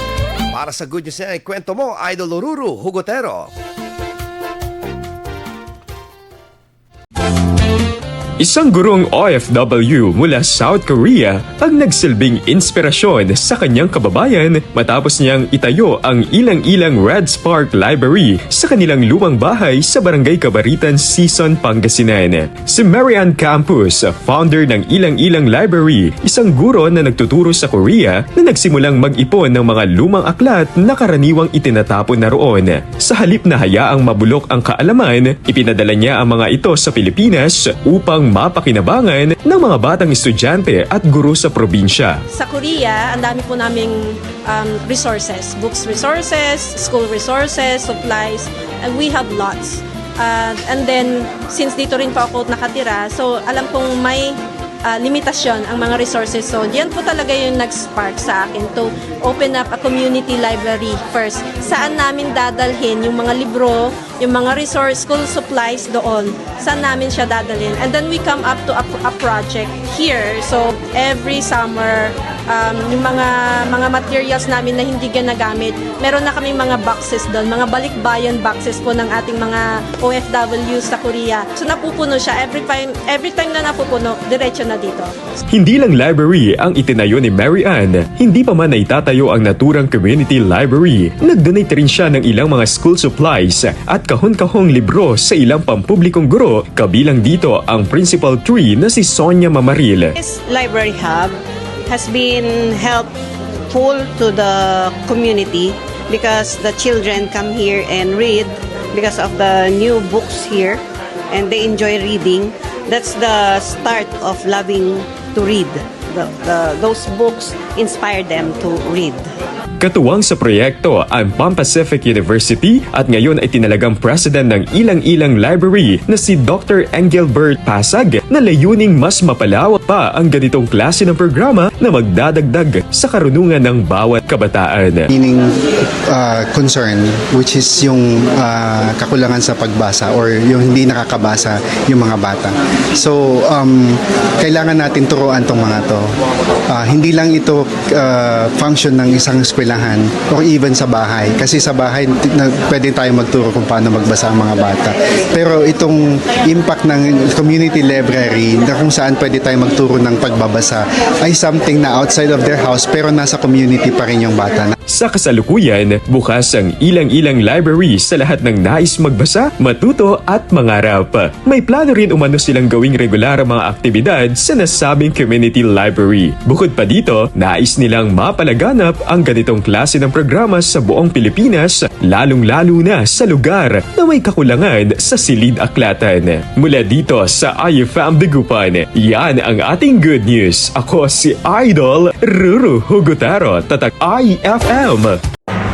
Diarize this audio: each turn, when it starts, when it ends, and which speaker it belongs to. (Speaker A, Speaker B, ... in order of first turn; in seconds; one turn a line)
Speaker A: 0.5-3.5
Speaker B: 8.4-42.2
Speaker C: 42.3-85.1
Speaker B: 85.5-100.2
Speaker D: 100.2-103.1
Speaker D: 103.7-119.3
Speaker B: 119.8-135.1
Speaker E: 135.1-135.6
Speaker E: 136.1-146.1
Speaker E: 146.7-164.7
Speaker B: 164.9-195.2